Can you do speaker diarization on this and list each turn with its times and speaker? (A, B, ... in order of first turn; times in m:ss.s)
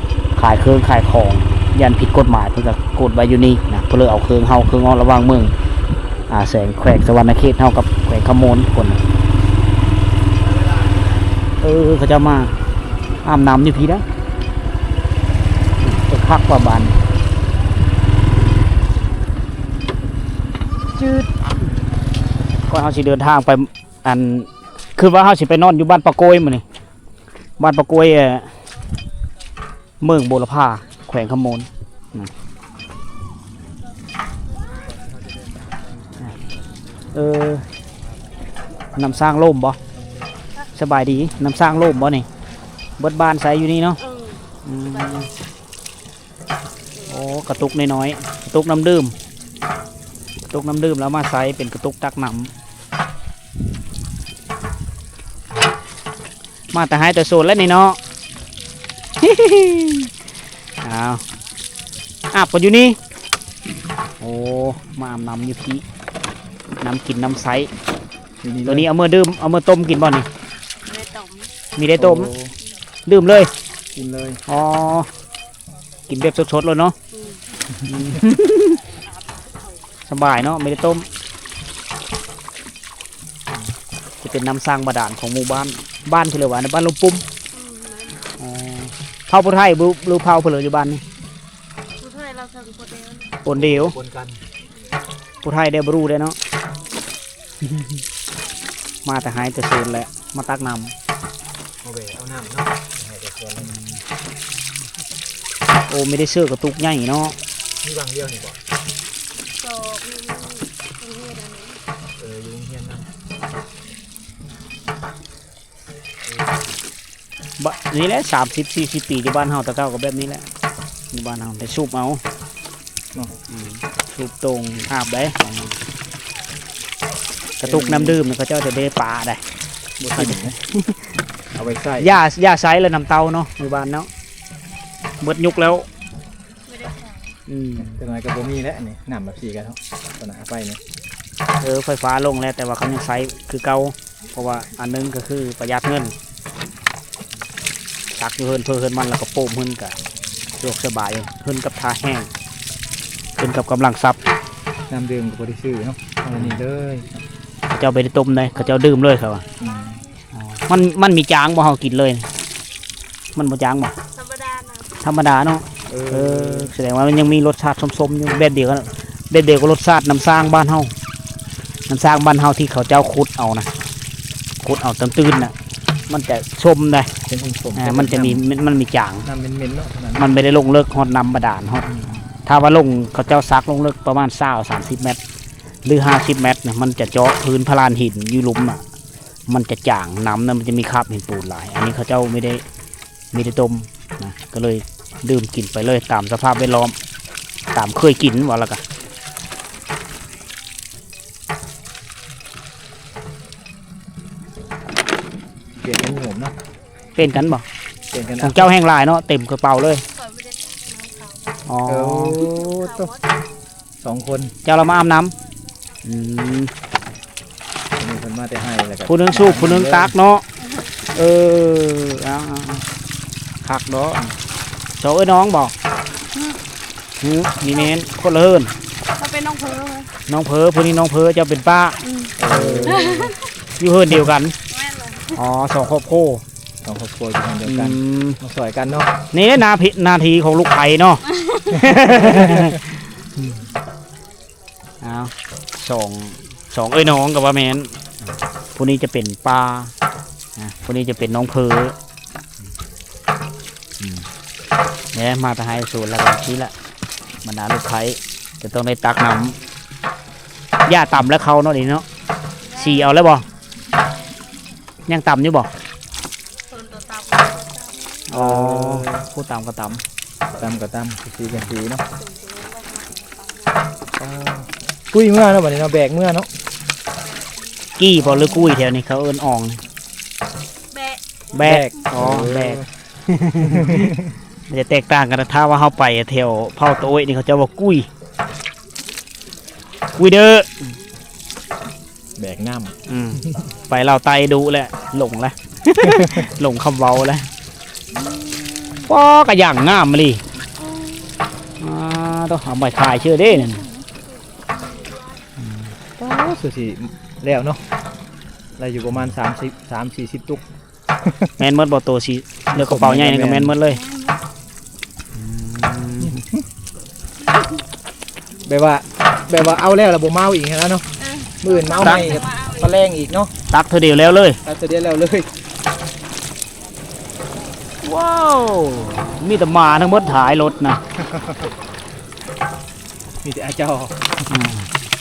0:00.4-0:05.5 A
0:06.3-0:09.0 A
0:11.6-0:12.5 A
0:13.2-0:14.0 A
0:15.8-0:17.0 A
0:20.9-0:21.3 A
0:22.7-0:26.6 A
0:27.6-0:28.5 A
0:30.0-0:32.3 A
0:34.7-0:37.0 B
0:37.1-0:37.6 A
0:39.0-0:39.8 A
0:40.8-0:42.3 A
0:43.0-0:44.0 A
0:44.0-0:45.2 C
0:44.6-0:45.3 A
0:47.0-0:47.5 C
0:47.1-0:49.1 A
0:50.5-0:52.5 A
0:56.7-0:58.0 A
0:59.2-1:00.1 A
1:00.8-1:01.2 A
1:02.3-1:03.0 A
1:04.2-1:05.8 A
1:06.8-1:07.7 A
1:08.4-1:08.9 B
1:08.6-1:10.3 A
1:10.8-1:11.5 C
1:11.8-1:12.3 A
1:12.0-1:12.5 B
1:13.0-1:13.5 A
1:13.9-1:14.4 B
1:14.5-1:15.1 A
1:16.1-1:16.9 A
1:17.1-1:17.4 C
1:17.8-1:18.8 A
1:17.9-1:18.2 B
1:20.1-1:21.0 A
1:24.2-1:27.2 A
1:27.5-1:28.4 C
1:28.4-1:31.0 A
1:32.0-1:33.4 C
1:33.4-1:33.9 A
1:33.5-1:34.4 B
1:35.4-1:36.4 A
1:37.6-1:38.0 A
1:39.0-1:40.9 A
1:41.8-1:43.8 B
1:43.6-1:44.0 A
1:45.9-1:47.4 A
1:47.8-1:48.6 B
1:49.5-1:51.8 C
1:52.2-1:53.1 B
1:56.2-1:56.8 B
1:57.6-2:00.4 A
2:01.1-2:02.2 A
2:03.5-2:05.8 A
2:07.6-2:09.4 A
2:07.6-2:08.2 B
2:10.0-2:10.6 B
2:10.1-2:11.1 A
2:11.5-2:12.2 B
2:12.0-2:14.1 A
2:15.2-2:15.8 A
2:16.6-2:17.4 C
2:17.5-2:18.0 A
2:17.8-2:20.8 B
2:21.6-2:26.1 A
2:28.1-2:30.0 A
2:30.6-2:32.3 A
2:33.4-2:34.2 A
2:34.9-2:37.2 B
2:37.7-2:39.4 A
2:38.7-2:40.1 C
2:39.6-2:40.0 B
2:40.4-2:42.3 A
2:43.3-2:44.0 A
2:44.1-2:45.0 C
2:45.0-2:50.9 A
2:45.8-2:46.7 B
2:51.9-2:53.7 A
2:54.6-2:55.5 A
2:56.1-2:57.1 A
2:57.3-2:58.4 B
2:57.8-2:59.3 A
2:59.2-3:00.3 B
3:00.2-3:01.9 A
3:01.9-3:02.1 B
3:02.4-3:05.2 A
3:05.8-3:08.8 A
3:09.5-3:12.6 A
3:13.3-3:17.0 A
3:17.7-3:18.8 A
3:25.8-3:26.5 B
3:27.2-3:27.6 A
3:28.1-3:28.7 B
3:28.4-3:30.0 A
3:30.1-3:31.6 C
3:31.6-3:32.5 A
3:31.9-3:33.1 B
3:32.4-3:33.5 C
3:34.0-3:34.5 B
3:34.6-3:35.3 A
3:36.0-3:36.7 A
3:38.0-3:40.1 B
3:39.1-3:40.4 A
3:40.6-3:40.9 C
3:41.1-3:42.8 A
3:43.6-3:44.3 A
3:45.0-3:45.7 A
3:46.3-3:46.6 C
3:47.2-3:48.7 A
3:49.1-3:50.1 C
3:50.3-3:54.5 A
3:52.0-3:52.3 C
3:52.4-3:53.3 B
3:52.9-3:53.4 C
3:54.7-3:55.4 C
3:55.3-3:56.4 A
3:56.8-3:59.1 B
3:57.6-3:58.4 A
3:59.3-4:03.6 A
4:01.9-4:02.8 B
4:05.0-4:08.0 A
4:08.8-4:09.9 A
4:10.6-4:12.0 A
4:15.1-4:16.7 A
4:17.4-4:19.6 A
4:20.8-4:22.0 A
4:22.7-4:23.2 C
4:22.8-4:23.4 A
4:25.1-4:25.7 A
4:26.7-4:28.3 C
4:28.3-4:30.0 A
4:28.3-4:29.2 B
4:30.5-4:32.0 B
4:32.1-4:33.8 C
4:34.1-4:36.5 B
4:37.3-4:37.7 C
4:38.0-4:39.8 A
4:38.2-4:38.7 B
4:40.9-4:41.2 C
4:41.5-4:44.1 A
4:41.6-4:42.9 B
4:43.6-4:44.3 B
4:44.7-4:48.1 A
4:50.1-4:50.8 A
4:52.4-4:53.6 B
4:53.1-4:57.5 A
4:56.0-4:56.5 B
4:59.0-5:00.4 A
5:00.9-5:01.5 C
5:01.8-5:03.8 A
5:03.2-5:05.4 C
5:05.6-5:05.9 A
5:06.2-5:07.8 B
5:08.8-5:10.6 B
5:11.2-5:11.5 B
5:11.6-5:14.0 A
5:12.7-5:13.8 B
5:13.8-5:14.4 C
5:15.3-5:16.4 A
5:16.2-5:16.6 B
5:18.6-5:21.1 B
5:21.2-5:23.0 C
5:21.6-5:23.5 B
5:22.0-5:22.3 A
5:23.7-5:24.6 A
5:24.6-5:25.5 B
5:28.0-5:31.0 A
5:31.1-5:31.7 B
5:33.4-5:34.3 B
5:34.5-5:34.9 A